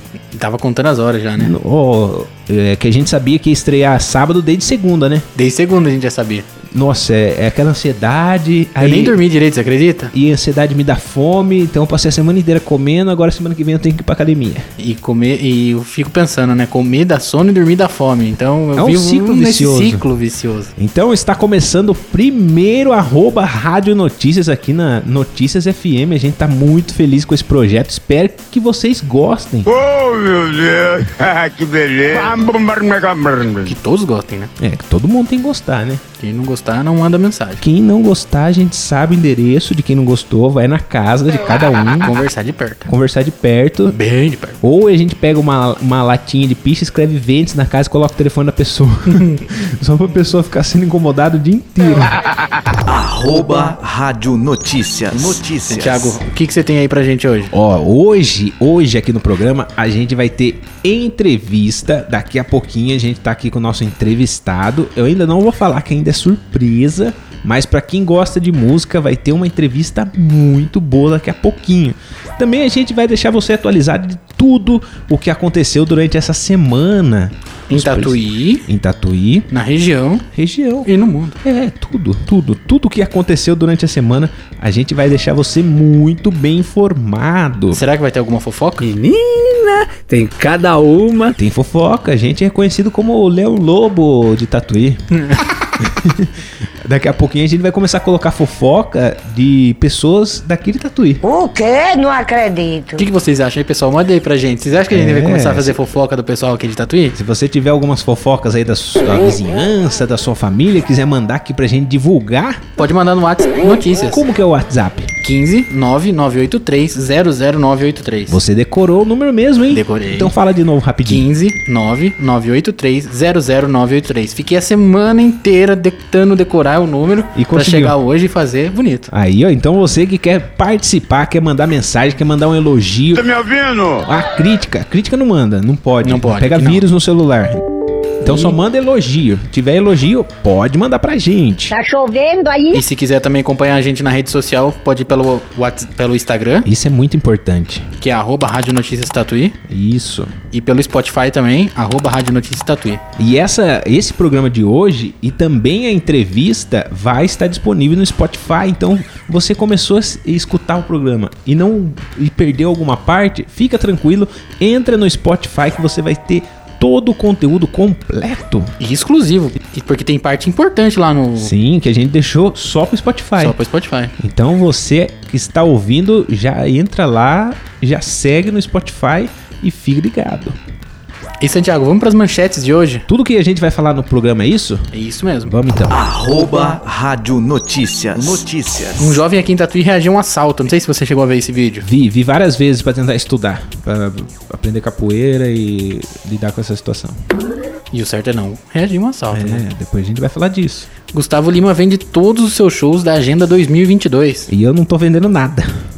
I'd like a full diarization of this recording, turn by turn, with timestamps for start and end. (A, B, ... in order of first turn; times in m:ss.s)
0:00.3-0:01.5 A
0:01.4-0:05.3 B
0:05.4-0:06.5 A
0:06.7-0:09.2 B
0:08.8-0:10.1 A
0:10.1-0:14.7 B
0:14.8-0:20.7 A
0:18.8-0:20.0 B
0:20.8-0:29.7 B
0:29.7-0:33.8 C
0:33.6-0:34.5 A
0:34.6-0:36.0 B
0:36.2-0:37.6 A
0:37.6-0:42.2 B
0:42.0-0:42.9 A
0:42.9-0:44.0 B
0:43.9-0:44.6 A
0:44.6-0:52.2 B
0:49.1-0:49.4 A
0:52.8-0:56.2 D
0:55.6-0:57.5 A
0:57.5-1:19.5 B
1:17.7-1:18.7 A
1:19.5-1:20.3 A
1:20.3-1:20.9 B
1:20.8-1:21.4 A
1:21.4-1:27.8 B
1:27.7-1:28.9 A
1:28.8-1:31.4 E
1:31.4-1:35.0 B
1:35.8-1:41.2 B
1:41.2-1:43.1 F
1:43.0-1:47.2 A
1:44.9-1:45.8 B
1:47.2-1:52.7 B
1:52.8-1:54.2 A
1:53.9-1:55.1 B
1:55.2-1:58.4 A
1:58.3-2:01.3 B
1:59.7-2:00.3 A
2:01.1-2:09.1 A
2:07.4-2:08.0 B
2:09.1-2:13.3 B
2:13.2-2:14.1 C
2:14.1-2:17.6 B
2:16.0-2:16.9 A
2:18.2-2:21.7 B
2:18.3-2:18.5 A
2:21.7-2:22.8 F
2:22.7-2:26.7 A
2:26.6-2:27.9 B
2:28.0-2:29.6 A
2:29.7-2:30.3 B
2:30.5-2:33.0 A
2:33.2-2:48.7 B
2:48.8-2:51.5 A
2:51.4-2:53.6 B
2:53.4-2:54.1 A
2:54.2-3:00.6 B
3:01.4-3:03.1 A
3:03.1-3:04.9 B
3:04.9-3:05.5 A
3:05.5-3:05.9 B
3:05.9-3:09.2 D
3:09.0-3:11.9 A
3:11.8-3:17.2 B
3:17.9-3:19.6 A
3:19.3-3:20.9 B
3:21.1-3:24.5 A
3:24.5-3:25.7 B